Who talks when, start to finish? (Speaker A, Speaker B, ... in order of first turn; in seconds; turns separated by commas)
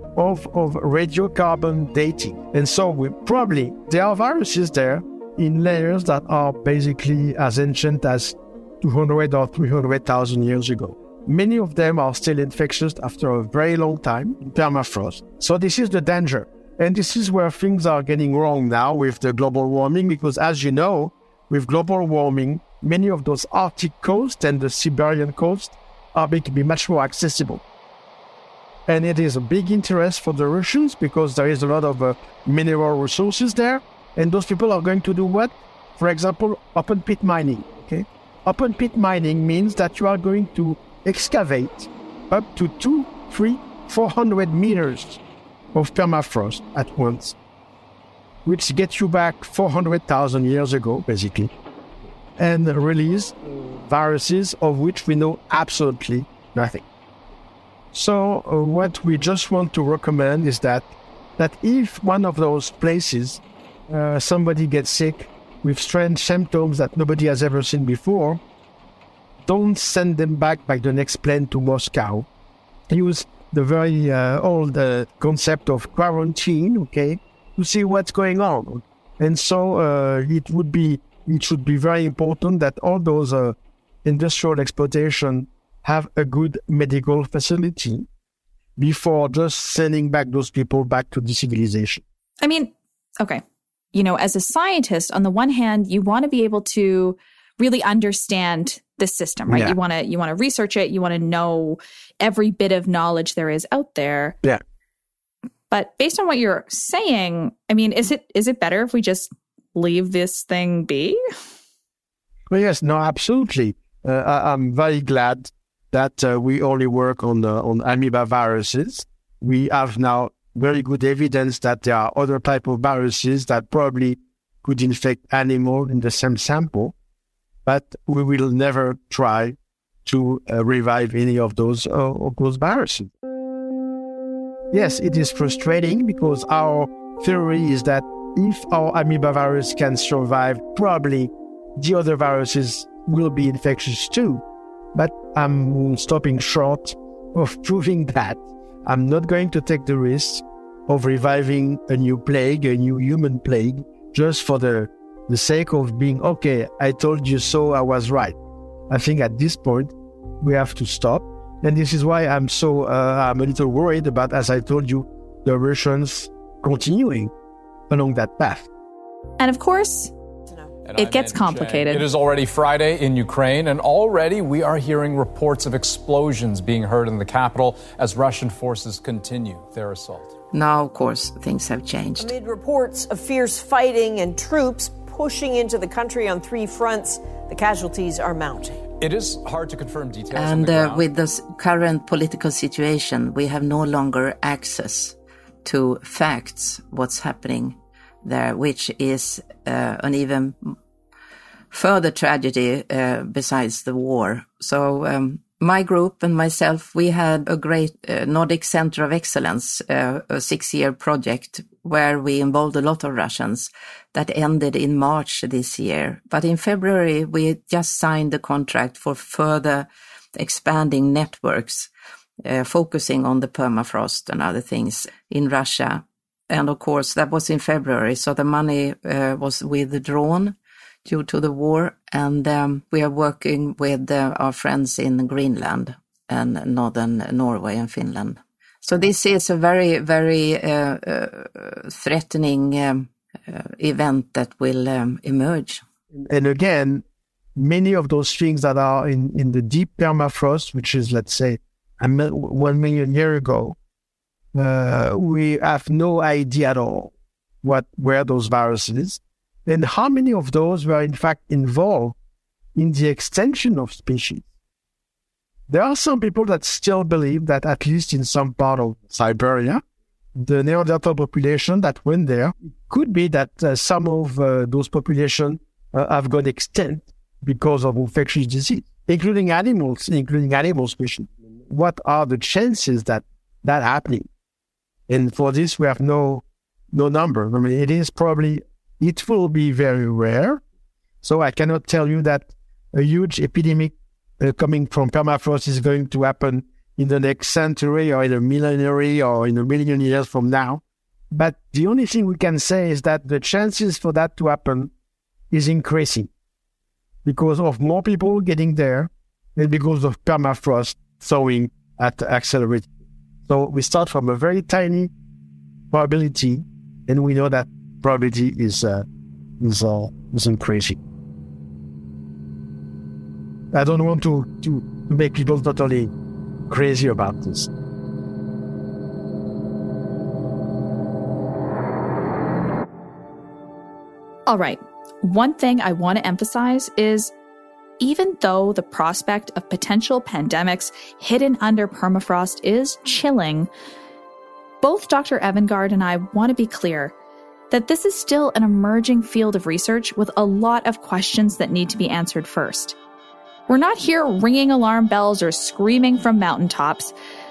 Speaker A: 0.2-27.6, Speaker A: 28.9-45.2, Speaker A: 45.7-47.4, Speaker A: 48.5-51.5, Speaker A: 52.4-56.8, Speaker A: 57.9-68.4, Speaker A: 69.5-72.3, Speaker A: 72.9-88.1, Speaker A: 88.8-92.0, Speaker B: 92.4-93.4, Speaker B: 93.9-104.4, Speaker A: 99.5-99.8, Speaker B: 105.7-111.2, Speaker A: 112.5-126.9, Speaker A: 127.7-133.1, Speaker A: 134.7-144.4, Speaker A: 144.9-158.4, Speaker A: 158.9-167.3, Speaker A: 167.9-168.7, Speaker B: 169.4-170.1, Speaker C: 170.8-180.3, Speaker B: 171.0-172.1, Speaker D: 180.5-182.3, Speaker E: 182.2-188.8, Speaker C: 189.0-191.1, Speaker D: 190.3-200.8, Speaker D: 201.7-221.9, Speaker D: 222.4-245.8, Speaker A: 246.1-247.0, Speaker A: 247.6-253.8, Speaker A: 254.5-262.2, Speaker A: 262.8-264.4, Speaker A: 265.7-269.8, Speaker A: 270.4-284.3, Speaker A: 285.1-290.6, Speaker A: 291.2-304.9, Speaker A: 305.5-306.3, Speaker A: 307.2-312.9, Speaker A: 313.5-315.1, Speaker A: 315.9-319.1, Speaker A: 319.6-321.0, Speaker A: 323.7-326.1, Speaker A: 326.7-327.7, Speaker B: 334.5-337.3, Speaker B: 338.0-343.7, Speaker B: 344.8-347.1, Speaker B: 347.7-353.0, Speaker B: 353.7-357.1